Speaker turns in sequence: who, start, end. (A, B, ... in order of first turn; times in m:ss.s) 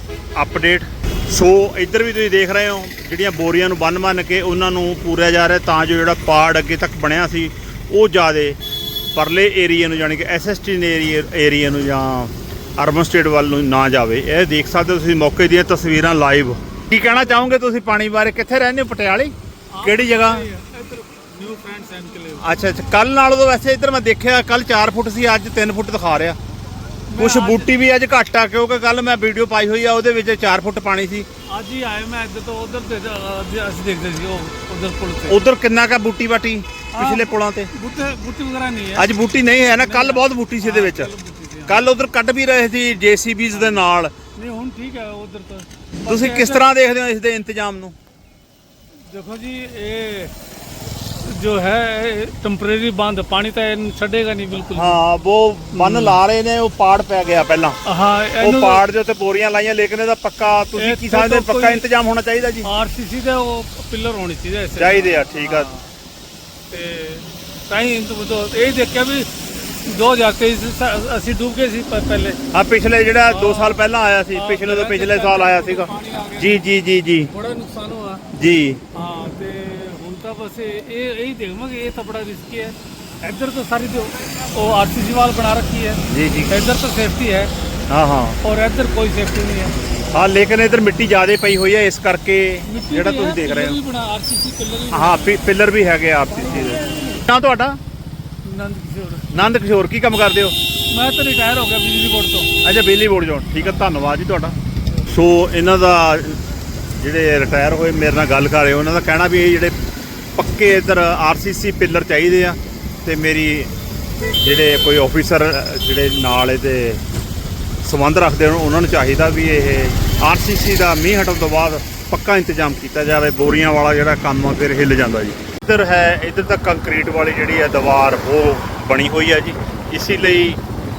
0:00.3-0:08.6 A
0:09.1-0:20.5 A
0:19.7-0:22.7 B
0:22.4-0:26.4 A
0:27.1-0:27.7 B
0:27.2-0:31.2 A
0:31.5-0:35.4 B
0:35.3-0:37.7 A
0:36.9-0:39.1 B
0:39.0-0:41.1 A
0:39.7-0:41.8 B
0:41.7-0:44.1 A
0:43.6-0:43.8 B
0:44.4-0:46.6 B
0:46.0-0:48.0 A
0:49.1-0:50.3 B
0:51.2-0:55.0 B
0:54.7-0:57.8 A
0:55.7-0:56.2 B
0:57.8-0:58.8 B
0:58.4-1:02.7 A
1:00.8-1:01.8 B
1:02.6-1:05.9 B
1:04.8-1:05.7 A
1:06.7-1:12.4 B
1:12.5-1:17.3 A
1:13.2-1:16.6 B
1:17.3-1:18.2 B
1:18.3-1:18.8 A
1:18.9-1:27.5 B
1:26.1-1:26.6 A
1:27.9-1:28.4 A
1:28.4-1:29.8 B
1:30.1-1:33.8 A
1:32.7-1:35.3 B
1:34.9-1:37.8 A
1:36.4-1:37.2 B
1:38.4-1:39.2 B
1:39.3-1:40.6 A
1:40.9-1:42.5 B
1:42.6-1:46.4 A
1:47.0-1:49.7 A
1:50.4-1:53.7 A
1:54.4-1:57.0 A
1:57.8-2:10.6 A